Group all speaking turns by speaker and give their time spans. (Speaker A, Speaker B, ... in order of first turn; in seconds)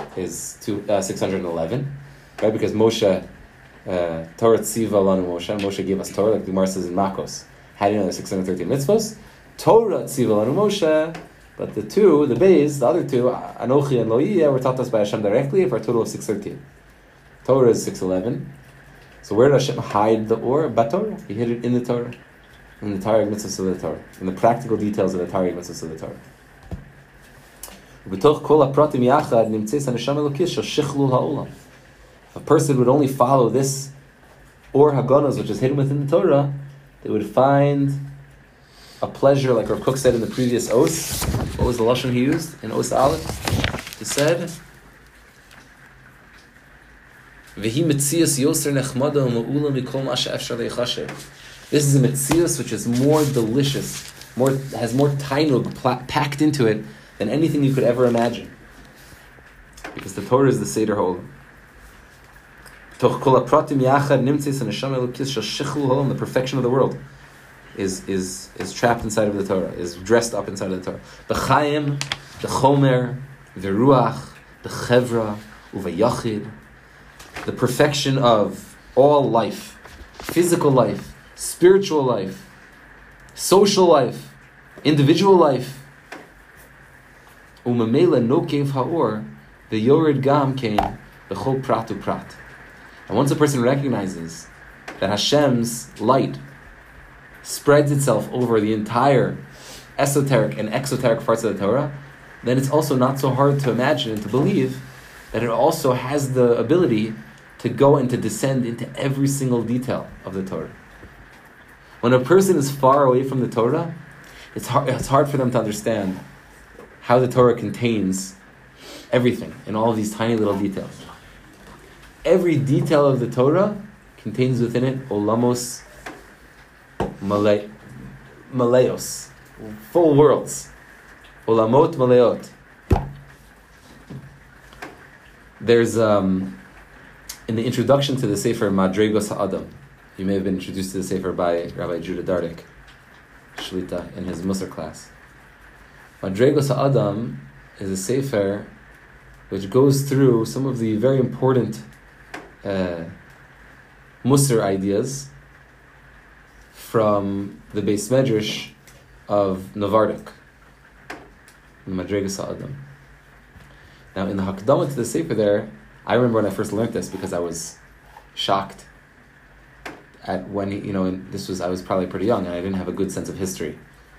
Speaker A: 0.1-3.2, 3.8-16.6, 17.4-18.5, 19.2-22.1, 22.8-26.2, 28.0-31.5, 32.3-33.9, 34.7-38.0, 39.0-43.3, 44.0-44.5, 47.5-51.1, 51.7-58.5, 59.9-61.3, 63.0-67.0, 67.7-76.5, 77.4-82.5, 83.3-85.8, 87.6-92.4, 93.1-94.5, 95.0-96.4, 97.4-99.4, 100.0-110.7, 112.0-113.9, 114.5-116.2, 117.0-118.3, 119.1-121.0, 122.2-125.8, 127.2-127.7, 128.5-130.7, 131.4-132.5, 135.6-136.6, 137.5-142.7, 143.6-145.1, 146.2-148.7, 149.5-151.8, 152.6-153.1, 154.2-155.3, 156.7-158.7, 159.3-160.3, 161.8-162.8, 164.1-167.8, 168.3-168.9, 170.2-173.8